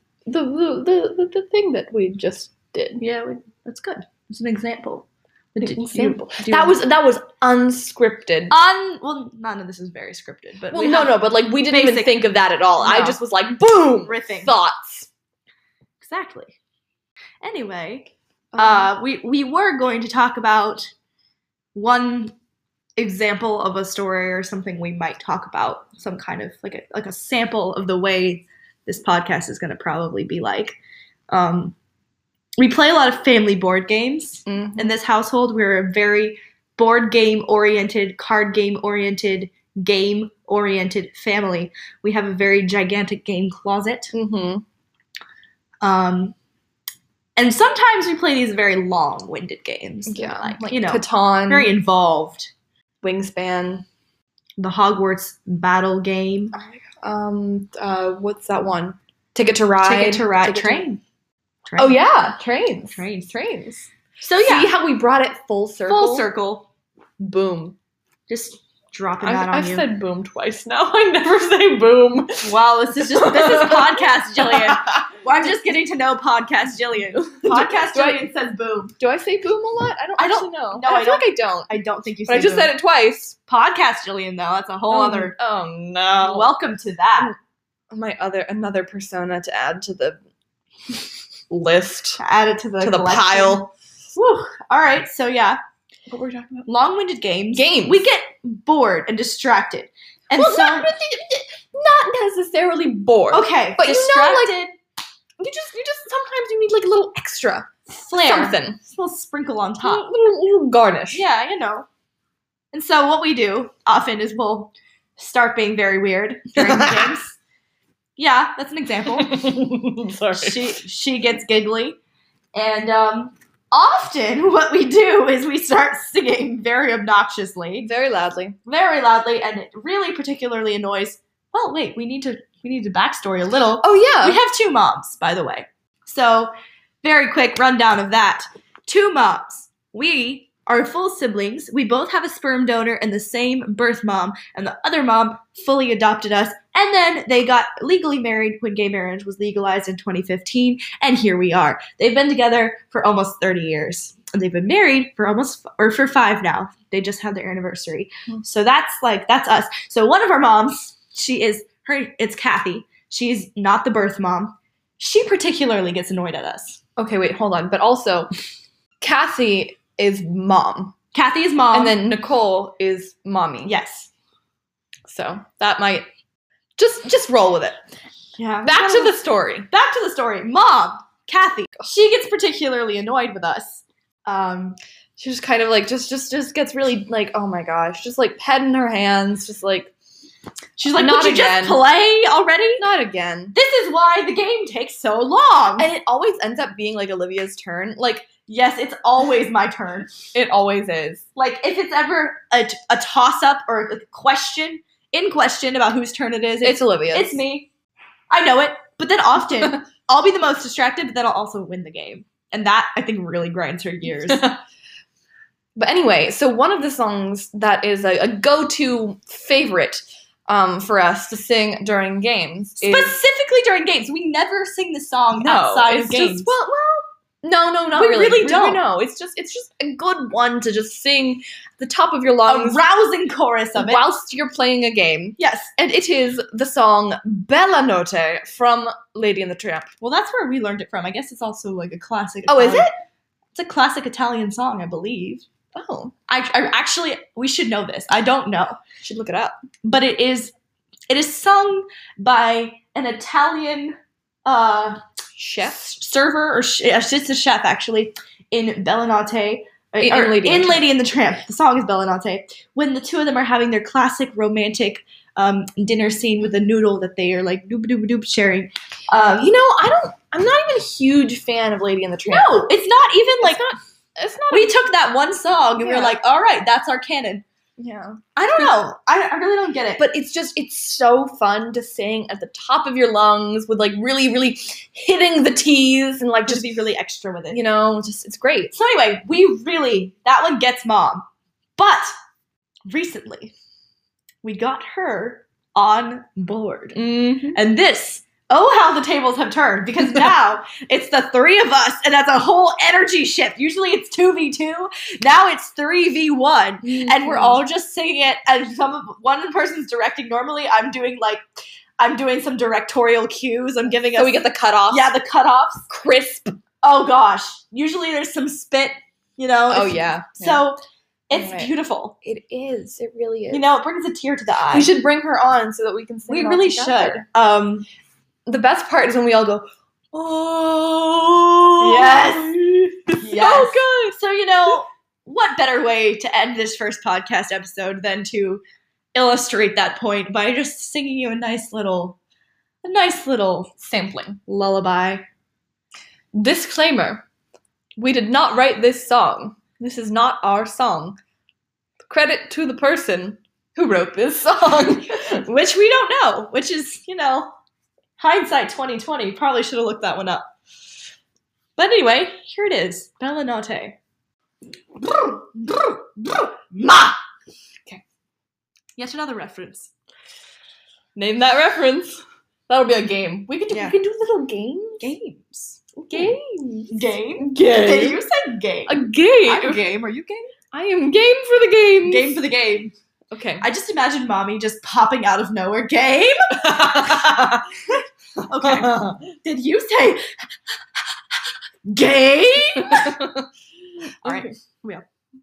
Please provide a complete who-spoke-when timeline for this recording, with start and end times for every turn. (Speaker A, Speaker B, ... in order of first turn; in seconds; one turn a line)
Speaker A: 0.3-3.0
Speaker B: 3.0-6.8
Speaker A: 5.6-8.6
Speaker B: 8.5-11.2
Speaker A: 10.7-15.1
Speaker B: 11.7-12.2
Speaker B: 12.8-13.2
Speaker B: 14.1-14.5
Speaker B: 16.0-16.6
Speaker B: 17.4-20.9
Speaker A: 18.5-18.9
Speaker B: 21.8-22.3
Speaker B: 23.0-30.8
Speaker B: 31.3-31.8
Speaker B: 32.6-44.1
Speaker A: 34.5-34.9
Speaker A: 44.1-44.6
Speaker B: 45.8-46.4
Speaker B: 47.4-52.5
Speaker A: 50.1-51.7
Speaker A: 53.0-53.9
Speaker B: 54.6-56.6
Speaker A: 56.5-60.9
Speaker B: 59.8-61.0
Speaker B: 61.7-62.0
Speaker A: 61.8-66.3
Speaker B: 62.9-63.3
Speaker B: 64.2-64.7
Speaker B: 65.9-66.7
Speaker A: 67.2-67.8
Speaker B: 68.3-69.9
Speaker A: 69.2-72.5
Speaker B: 72.4-79.0
Speaker A: 73.0-75.0
Speaker A: 77.2-78.2
Speaker A: 79.0-81.7
Speaker B: 80.2-82.7
Speaker A: 82.3-83.4
Speaker B: 83.5-85.4
Speaker A: 84.9-86.5
Speaker B: 86.2-87.3
Speaker A: 87.9-90.2
Speaker A: 91.5-92.2
Speaker B: 92.2-95.6
Speaker A: 92.8-93.7
Speaker A: 96.1-96.7
Speaker B: 96.7-100.9
Speaker A: 97.5-98.1
Speaker A: 100.3-104.5
Speaker B: 103.3-104.7
Speaker A: 105.4-108.8
Speaker B: 107.9-110.1
Speaker A: 109.8-111.2
Speaker B: 111.1-111.9
Speaker B: 112.7-117.4
Speaker A: 116.6-117.2
Speaker B: 118.2-119.4
Speaker A: 119.1-120.8
Speaker B: 120.3-122.0
Speaker B: 122.5-127.9
Speaker A: 127.8-128.6
Speaker B: 128.7-136.5
Speaker A: 133.8-134.4
Speaker B: 137.0-166.8
Speaker A: 167.0-168.3
Speaker A: 169.0-171.0
Speaker B: 171.1-172.0
Speaker A: 171.7-173.7
Speaker B: 173.7-174.1
Speaker A: 175.1-176.1
Speaker A: 176.8-177.8
Speaker B: 178.4-179.2
Speaker A: 178.6-179.7
Speaker B: 179.7-184.8
Speaker A: 185.2-189.9
Speaker B: 190.8-192.8
Speaker A: 190.9-191.8
Speaker A: 192.8-193.6
Speaker B: 193.5-195.9
Speaker A: 195.8-198.3
Speaker B: 198.5-200.2
Speaker A: 200.3-201.2
Speaker B: 201.4-207.7
Speaker A: 206.6-207.4
Speaker B: 208.3-214.4
Speaker A: 214.3-214.6
Speaker A: 215.8-223.1
Speaker B: 222.8-226.5
Speaker A: 225.3-232.8
Speaker B: 227.9-228.8
Speaker B: 232.5-234.0
Speaker A: 233.8-239.9
Speaker B: 235.4-235.7
Speaker B: 240.0-242.9
Speaker A: 242.5-242.9
Speaker B: 243.5-245.4
Speaker A: 245.8-246.1
Speaker B: 246.3-248.8
Speaker A: 249.0-249.6
Speaker B: 249.8-250.5
Speaker B: 251.1-255.0
Speaker A: 255.4-255.8
Speaker B: 255.6-269.6
Speaker A: 260.0-260.9
Speaker A: 269.4-272.7
Speaker B: 272.3-273.7
Speaker A: 273.4-274.9
Speaker B: 274.5-277.4
Speaker A: 275.8-276.2
Speaker A: 277.8-278.7
Speaker B: 278.4-280.1
Speaker A: 280.0-286.7
Speaker B: 286.5-287.6
Speaker A: 287.5-288.7
Speaker B: 288.7-291.2
Speaker B: 291.8-292.1
Speaker B: 292.9-293.5
Speaker B: 294.4-297.0
Speaker A: 296.9-297.6
Speaker B: 297.5-311.4
Speaker A: 306.8-307.6
Speaker B: 312.0-315.9
Speaker A: 314.1-315.1
Speaker A: 315.9-316.6
Speaker B: 316.8-322.2
Speaker A: 319.7-320.6
Speaker A: 321.3-323.7
Speaker B: 323.5-324.9
Speaker A: 324.7-327.2
Speaker B: 326.3-327.9
Speaker A: 328.5-334.2
Speaker B: 331.8-332.6
Speaker B: 333.2-338.6
Speaker B: 339.1-342.2
Speaker B: 342.8-343.7
Speaker A: 343.8-344.4
Speaker B: 344.5-345.2
Speaker A: 346.4-347.2
Speaker A: 348.0-351.2
Speaker A: 352.1-355.4
Speaker B: 355.4-357.6
Speaker B: 358.2-360.5
Speaker B: 361.8-364.0
Speaker B: 365.0-367.2
Speaker B: 369.0-369.9
Speaker A: 371.2-375.1
Speaker B: 373.7-374.0
Speaker B: 375.0-376.4
Speaker A: 376.0-378.2
Speaker B: 376.9-380.5
Speaker A: 378.9-379.8
Speaker A: 380.7-382.4
Speaker B: 382.0-382.9
Speaker A: 383.3-383.7
Speaker B: 383.6-386.4
Speaker A: 386.6-387.6
Speaker B: 387.9-390.2
Speaker A: 388.6-389.2
Speaker B: 391.9-393.2
Speaker A: 392.8-393.5
Speaker A: 394.2-394.5
Speaker B: 394.2-395.1